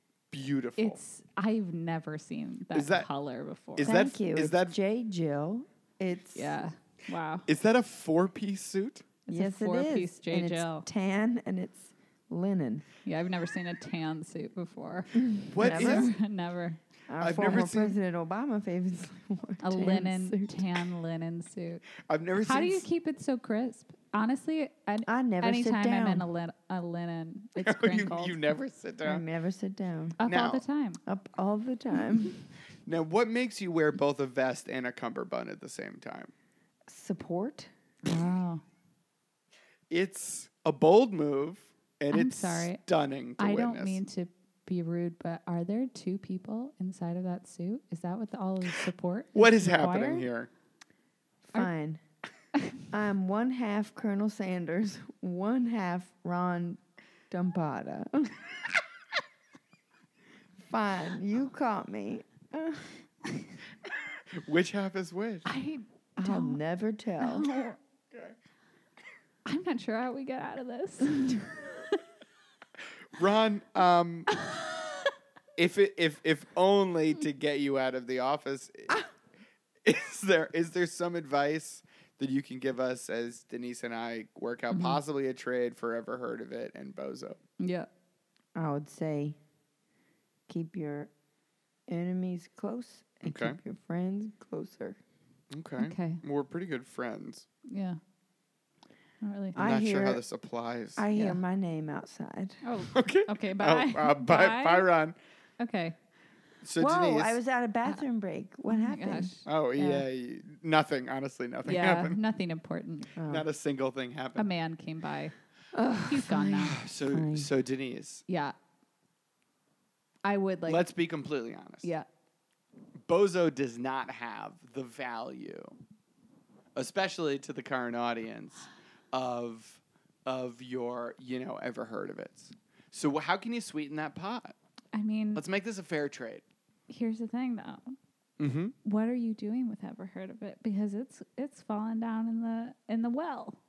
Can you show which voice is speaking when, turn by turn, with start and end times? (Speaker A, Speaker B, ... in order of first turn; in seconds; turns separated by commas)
Speaker A: 0.3-1.0, Speaker B: 0.8-4.0, Speaker A: 2.7-3.1, Speaker A: 3.8-4.8, Speaker C: 3.8-6.6, Speaker B: 6.3-7.5, Speaker A: 7.5-9.1, Speaker B: 9.3-10.9, Speaker C: 9.3-12.8, Speaker B: 13.1-16.8, Speaker C: 15.2-16.1, Speaker A: 15.5-16.1, Speaker C: 17.1-20.6, Speaker A: 17.2-18.0, Speaker B: 19.6-21.9, Speaker A: 22.0-22.9, Speaker B: 22.4-28.4, Speaker C: 25.1-26.3, Speaker A: 27.6-29.2, Speaker C: 29.0-30.2, Speaker B: 30.2-31.0, Speaker A: 30.3-30.6, Speaker C: 31.1-32.4, Speaker A: 32.9-36.3, Speaker C: 36.9-37.7, Speaker B: 38.0-38.6, Speaker A: 39.9-44.0, Speaker B: 42.1-42.8, Speaker B: 43.4-50.3, Speaker A: 49.4-50.5, Speaker C: 51.4-52.0, Speaker C: 52.9-58.4, Speaker C: 60.6-63.0, Speaker A: 64.3-65.5, Speaker B: 65.5-66.6, Speaker C: 66.2-67.5, Speaker B: 67.2-67.8, Speaker B: 69.5-72.0, Speaker A: 73.1-74.3, Speaker A: 75.6-79.0, Speaker A: 79.8-87.4, Speaker B: 84.7-85.0, Speaker B: 87.6-87.9, Speaker C: 88.6-89.4, Speaker C: 90.5-91.1, Speaker C: 91.9-95.0, Speaker A: 93.2-93.6, Speaker A: 95.5-97.5, Speaker B: 95.8-96.2, Speaker B: 97.7-98.0, Speaker B: 99.2-99.6, Speaker C: 99.6-100.2, Speaker A: 99.6-101.0, Speaker C: 101.0-102.6, Speaker B: 101.1-101.4, Speaker B: 102.6-104.9, Speaker A: 102.9-105.2, Speaker B: 105.6-106.0, Speaker A: 106.6-107.4, Speaker C: 106.8-110.0, Speaker B: 108.7-109.5, Speaker A: 109.5-112.2, Speaker B: 111.7-113.1, Speaker C: 113.2-113.5, Speaker A: 113.2-114.5, Speaker B: 114.4-115.3, Speaker C: 115.7-117.5, Speaker B: 116.1-116.8, Speaker A: 116.7-118.2, Speaker B: 118.3-118.5, Speaker B: 120.2-120.8, Speaker A: 120.7-121.9, Speaker A: 123.1-125.8, Speaker A: 126.8-134.6, Speaker B: 134.9-135.4, Speaker A: 135.3-136.4, Speaker B: 136.9-138.0, Speaker A: 138.4-138.8, Speaker B: 138.8-143.6